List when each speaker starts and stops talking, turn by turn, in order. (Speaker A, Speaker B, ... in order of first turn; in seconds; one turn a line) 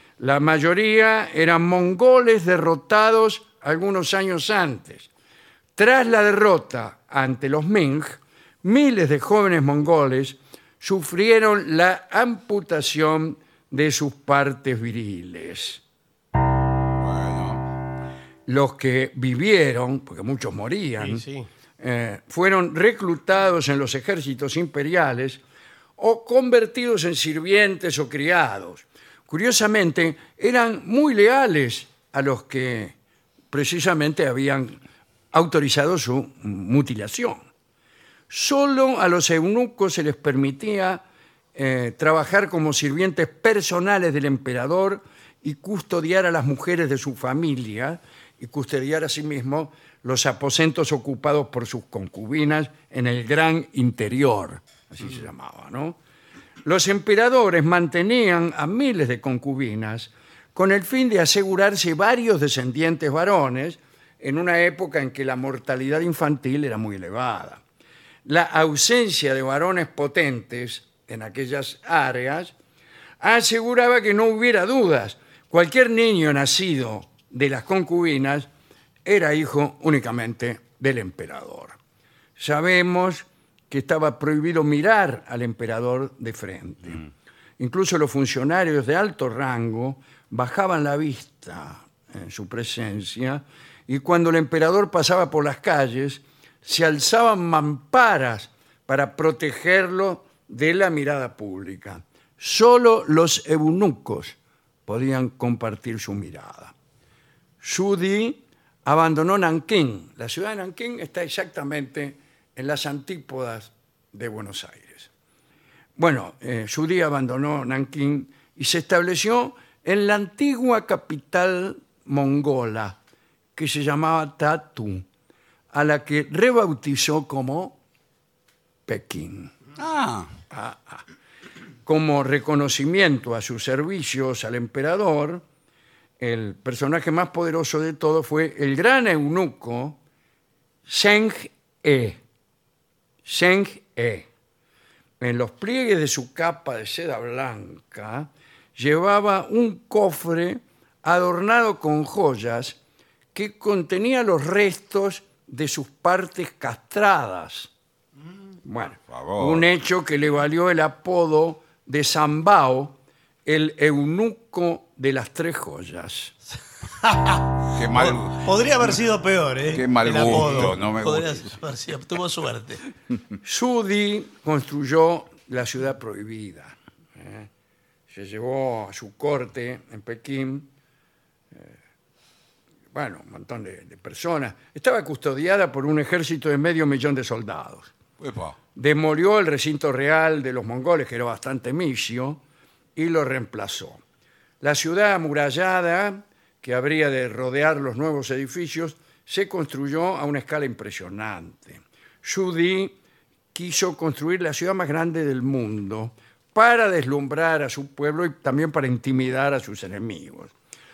Speaker A: 0.2-5.1
Speaker A: 5.8-15.8
Speaker B: 17.0-17.6
Speaker A: 18.5-21.3
Speaker C: 21.0-21.5
Speaker A: 21.8-25.4
Speaker A: 26.0-33.0
Speaker A: 33.5-34.8
Speaker A: 35.3-37.4
Speaker A: 38.3-41.0
Speaker A: 41.5-56.0
Speaker A: 56.6-67.6
Speaker A: 68.2-72.5
Speaker A: 73.2-78.5
Speaker A: 79.0-81.8
Speaker A: 82.4-87.0
Speaker A: 87.6-106.7
Speaker A: 107.6-115.1
Speaker A: 116.0-123.0
Speaker A: 123.5-125.1
Speaker A: 125.7-127.8
Speaker A: 128.9-129.6
Speaker B: 129.8-130.3
Speaker A: 130.5-131.0
Speaker A: 131.8-135.4
Speaker A: 136.2-140.0
Speaker A: 140.9-142.2
Speaker A: 143.2-144.3
Speaker A: 145.2-152.8
Speaker A: 153.3-157.7
Speaker A: 158.6-166.4
Speaker B: 159.1-159.6
Speaker C: 167.0-172.8
Speaker B: 167.7-168.5
Speaker B: 169.7-171.6
Speaker A: 173.4-177.5
Speaker A: 178.1-180.7
Speaker A: 181.5-181.8
Speaker A: 182.9-187.9
Speaker B: 188.2-188.6
Speaker A: 188.8-192.4
Speaker A: 193.0-194.0
Speaker A: 194.6-203.0
Speaker A: 203.5-210.5